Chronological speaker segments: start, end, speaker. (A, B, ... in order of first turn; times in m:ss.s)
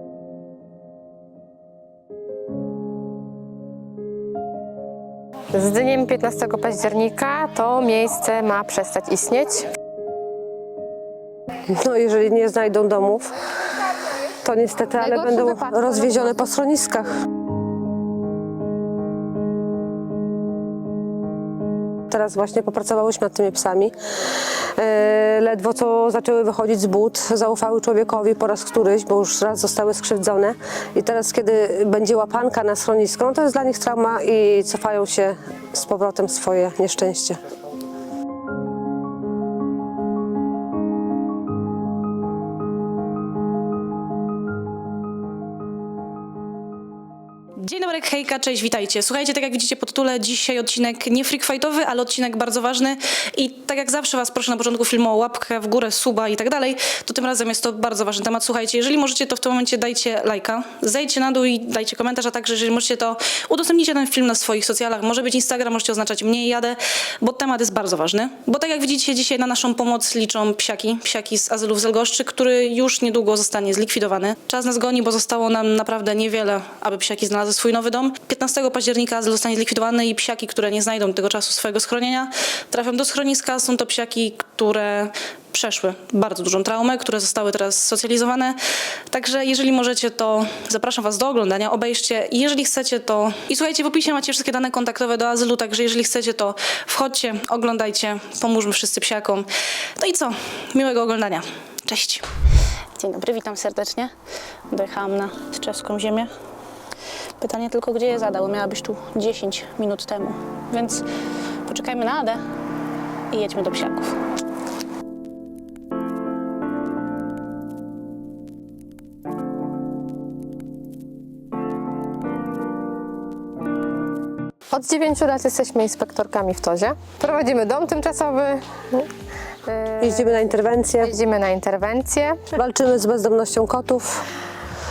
0:05.5-0:09.7 A
0:11.8-0:13.3 B
0:14.4-0:17.1 B
0:15.0-0:16.3 A
0:22.1-0:24.0 B
0:24.8-0:37.4 B
0:47.6-1:28.6 C
1:29.1-1:42.3 C
1:43.0-1:44.1 C
1:44.7-1:46.3 C
1:47.4-1:51.0 C
1:51.7-1:52.4 C
1:53.3-1:54.1 C
2:04.7-2:09.1 A
2:09.6-2:12.5 A
2:10.0-2:11.1 B
2:12.6-2:14.2 B